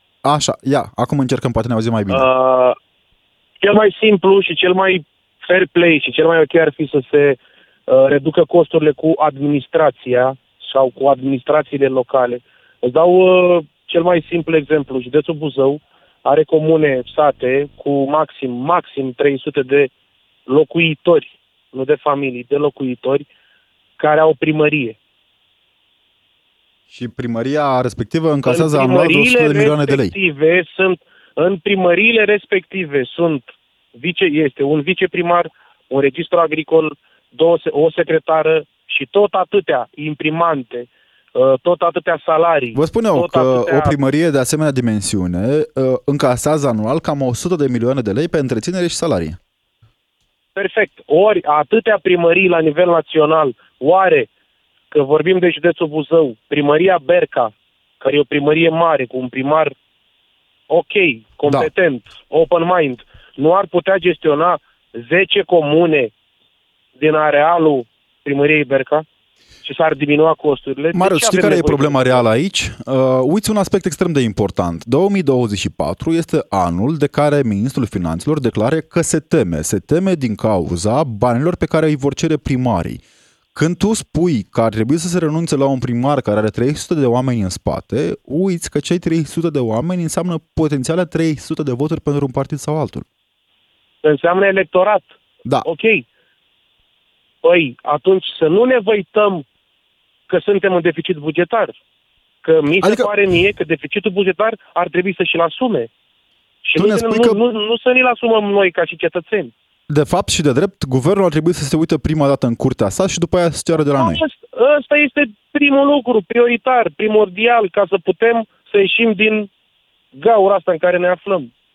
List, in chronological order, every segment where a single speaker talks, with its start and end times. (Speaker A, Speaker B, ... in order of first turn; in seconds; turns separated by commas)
Speaker A: 0.2-2.2, Speaker B: 2.1-2.8, Speaker B: 3.6-7.4, Speaker B: 7.9-19.9, Speaker B: 20.5-23.2, Speaker B: 24.0-24.9, Speaker A: 26.9-30.1, Speaker B: 28.4-43.9, Speaker A: 42.7-49.4, Speaker B: 50.5-54.3, Speaker B: 54.9-59.7, Speaker B: 60.7-66.1, Speaker B: 67.0-69.0, Speaker B: 69.6-72.2, Speaker A: 70.9-83.0, Speaker A: 83.5-93.0, Speaker B: 94.0-95.1, Speaker B: 95.6-96.0, Speaker B: 97.4-99.4, Speaker B: 100.3-101.8, Speaker B: 102.4-105.9, Speaker A: 102.8-103.1, Speaker B: 106.6-109.5, Speaker A: 106.8-107.4, Speaker A: 109.9-114.2, Speaker B: 114.0-119.5, Speaker B: 120.1-121.5